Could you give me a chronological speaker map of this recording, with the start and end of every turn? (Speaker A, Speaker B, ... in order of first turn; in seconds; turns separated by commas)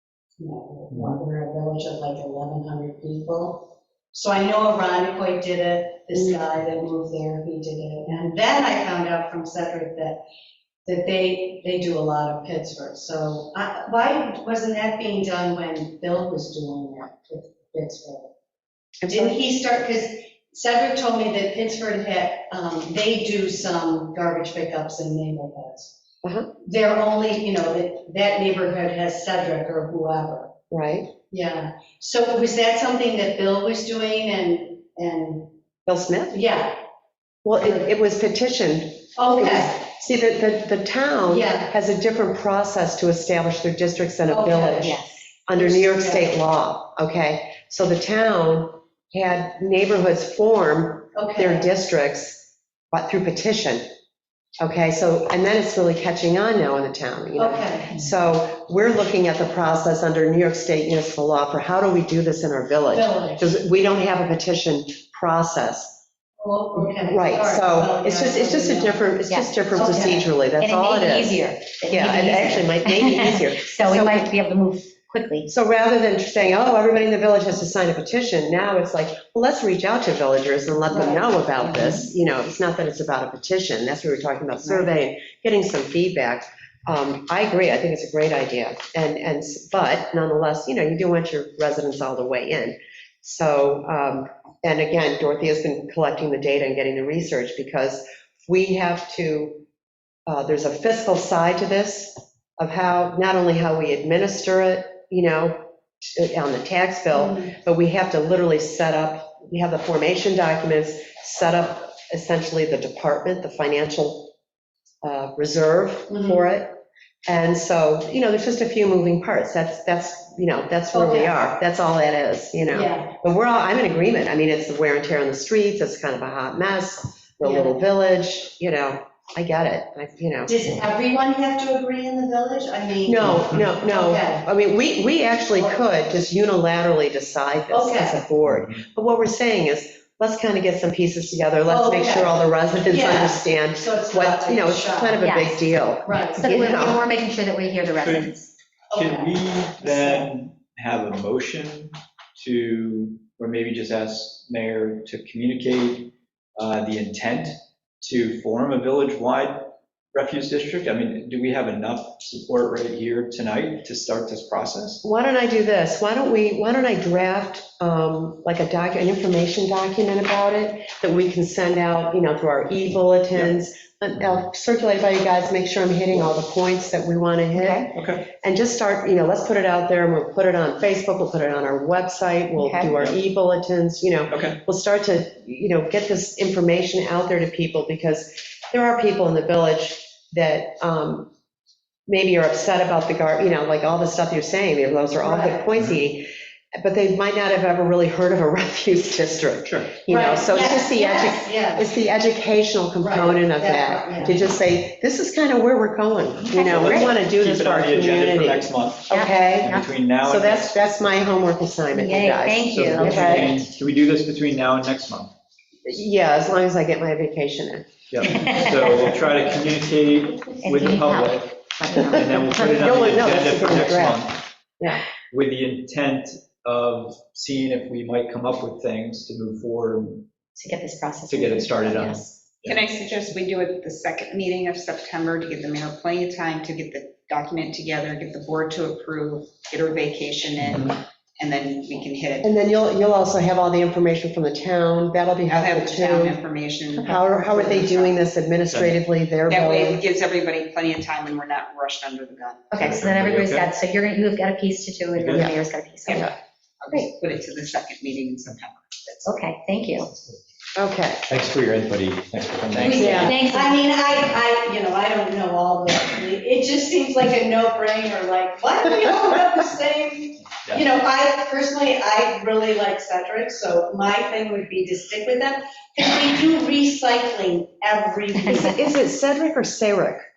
Speaker A: 0.4-10.2, Speaker A: 10.8-18.3, Speaker B: 19.0-19.4, Speaker A: 19.1-26.0, Speaker B: 26.2-26.5, Speaker A: 26.6-30.5, Speaker B: 30.7-31.1, Speaker A: 31.3-35.5, Speaker B: 35.9-36.4, Speaker A: 36.3-36.8, Speaker B: 37.5-45.0, Speaker A: 37.6-37.9, Speaker A: 39.2-39.8, Speaker A: 41.3-41.7, Speaker A: 44.3-45.0, Speaker C: 44.8-45.2, Speaker B: 45.5-53.9, Speaker A: 45.5-46.4, Speaker A: 51.1-51.7, Speaker B: 54.6-66.0, Speaker A: 57.4-58.0, Speaker A: 62.9-63.5, Speaker A: 66.4-69.1, Speaker B: 66.9-74.3, Speaker C: 69.3-75.5, Speaker A: 69.8-70.2, Speaker B: 75.5-99.6, Speaker A: 80.9-82.0, Speaker B: 100.3-114.3, Speaker A: 107.1-107.5, Speaker B: 115.0-130.6, Speaker A: 116.1-116.5, Speaker A: 120.9-121.4, Speaker A: 122.7-123.1, Speaker A: 127.4-127.8, Speaker A: 130.5-134.5, Speaker B: 133.1-147.0, Speaker A: 137.7-138.2, Speaker A: 141.7-145.2, Speaker C: 145.2-145.7, Speaker A: 146.1-146.6, Speaker C: 146.4-148.5, Speaker D: 148.0-148.3, Speaker A: 148.9-150.3, Speaker D: 148.9-165.0, Speaker B: 165.0-191.3, Speaker E: 177.5-177.9, Speaker D: 177.9-178.3, Speaker E: 182.6-182.9, Speaker D: 182.8-183.2, Speaker D: 184.3-184.6, Speaker B: 192.1-213.6, Speaker A: 195.2-195.7, Speaker A: 200.1-201.9, Speaker A: 203.0-204.4, Speaker D: 206.4-210.8, Speaker C: 206.5-207.2, Speaker C: 209.1-209.9, Speaker C: 211.9-213.7, Speaker D: 212.7-215.3, Speaker B: 215.8-217.9, Speaker D: 218.1-224.4, Speaker C: 218.3-218.9, Speaker C: 220.5-222.8, Speaker B: 222.1-224.2, Speaker D: 225.3-230.3, Speaker C: 230.6-232.4, Speaker D: 231.3-232.8, Speaker E: 232.6-242.5, Speaker D: 240.6-241.0, Speaker B: 242.4-246.4, Speaker E: 245.5-248.1, Speaker B: 247.0-250.0, Speaker D: 248.7-249.0, Speaker E: 249.5-253.0, Speaker D: 252.7-253.7, Speaker C: 252.9-256.3, Speaker D: 255.2-255.5, Speaker B: 255.3-255.6, Speaker B: 256.1-256.3, Speaker E: 256.8-259.3, Speaker C: 259.2-260.1, Speaker B: 260.8-261.2, Speaker D: 261.3-263.3, Speaker A: 262.7-278.9, Speaker B: 263.0-263.3, Speaker C: 263.2-263.7, Speaker B: 278.5-280.2